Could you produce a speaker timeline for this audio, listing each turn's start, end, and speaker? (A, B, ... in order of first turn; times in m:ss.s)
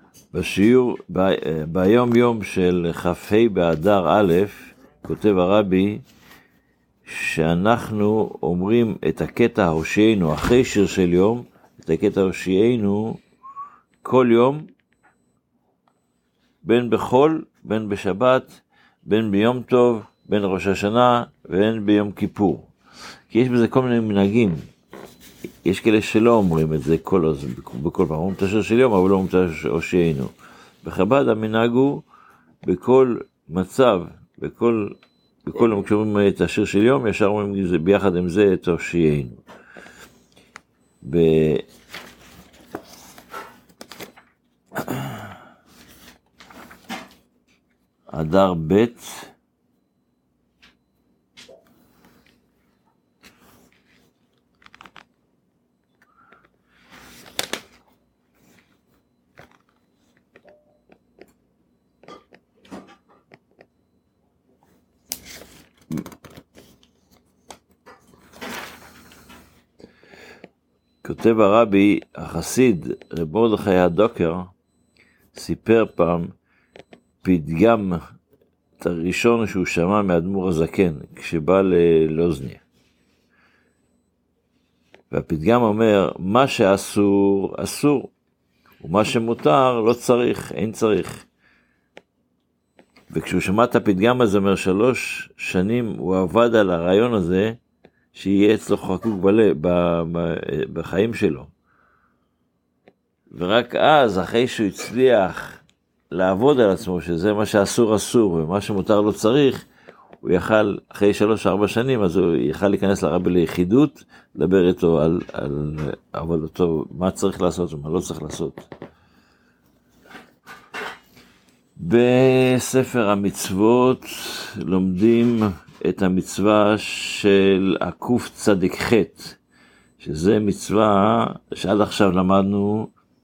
0:00.3-0:06.0 A
0:07.1-0:13.2 A
0:14.0-0:14.7 A
0:16.6-0:22.7 A
0:23.3-0:24.6 A
0:25.6-0:30.3 A
0:30.8-0:32.0 A
0:32.6-0:39.4 A
0:41.0-0:41.6 A
0:48.1-0:49.3 A
1:11.0-1:14.5 A
1:15.3-1:16.3 A
1:17.2-1:18.0 A
1:18.8-1:22.6 A
1:25.1-1:28.1 A
1:28.8-1:31.2 A
1:33.1-1:37.6 A
1:38.1-1:41.5 A
1:43.3-1:45.6 A
1:46.1-1:49.6 A
1:50.2-1:58.7 A
2:01.8-2:09.4 A
2:10.0-2:12.9 A